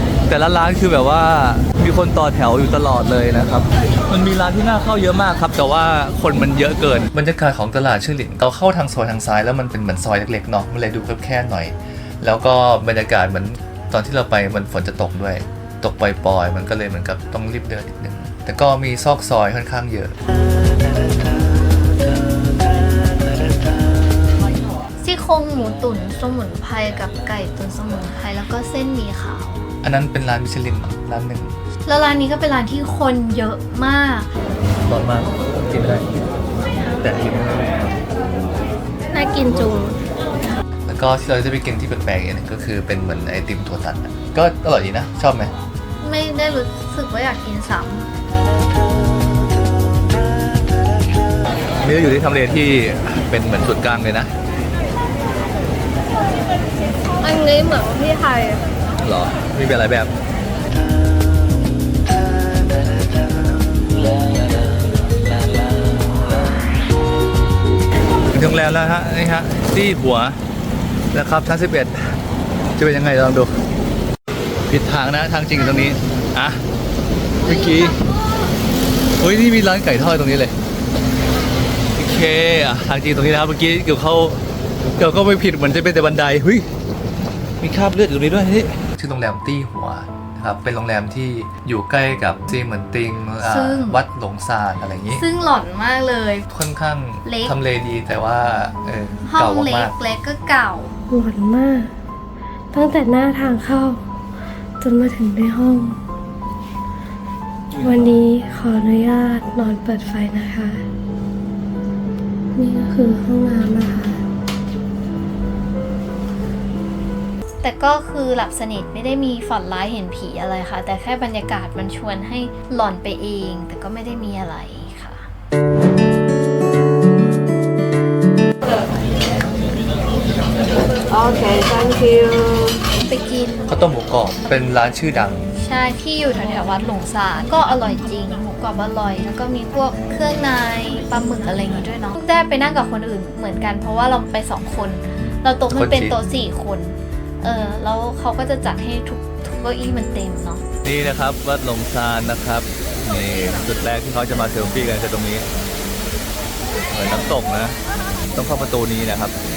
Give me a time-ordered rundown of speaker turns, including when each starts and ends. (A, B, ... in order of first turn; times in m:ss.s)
0:00.3-0:20.2 A
0:20.8-0:24.0 A
0:25.0-0:29.7 B
0:29.8-0:31.6 A
0:31.8-0:34.3 B
0:34.8-0:36.1 A
0:37.0-0:38.0 A
0:39.1-0:40.0 C
0:40.8-0:45.5 A
0:46.0-0:48.1 B
0:51.8-0:54.3 A
0:57.2-0:58.6 C
0:59.0-1:00.1 A
1:02.3-1:06.5 A
1:08.3-1:10.4 A
1:11.1-1:12.2 A
1:12.8-1:13.6 A
1:14.7-1:16.6 A
1:17.4-1:18.0 A
1:19.2-1:20.6 A
1:22.0-1:26.7 A
1:27.6-1:35.2 A
1:33.4-1:34.0 B
1:35.2-1:36.5 B
1:36.5-1:39.9 A
1:37.2-1:37.5 B
1:39.2-1:40.9 B
1:41.1-1:41.9 C
1:42.7-1:44.0 C
1:44.8-1:46.0 C
1:47.7-1:48.2 A
1:47.8-1:50.8 C
1:52.5-1:54.2 C
1:57.6-2:05.3 B
2:11.0-2:12.8 C
2:13.1-2:13.7 B
2:13.7-2:15.5 A
2:15.6-2:30.6 B
2:25.2-2:26.2 A
2:30.8-2:35.5 A
2:36.9-2:37.8 A
2:38.3-2:39.4 A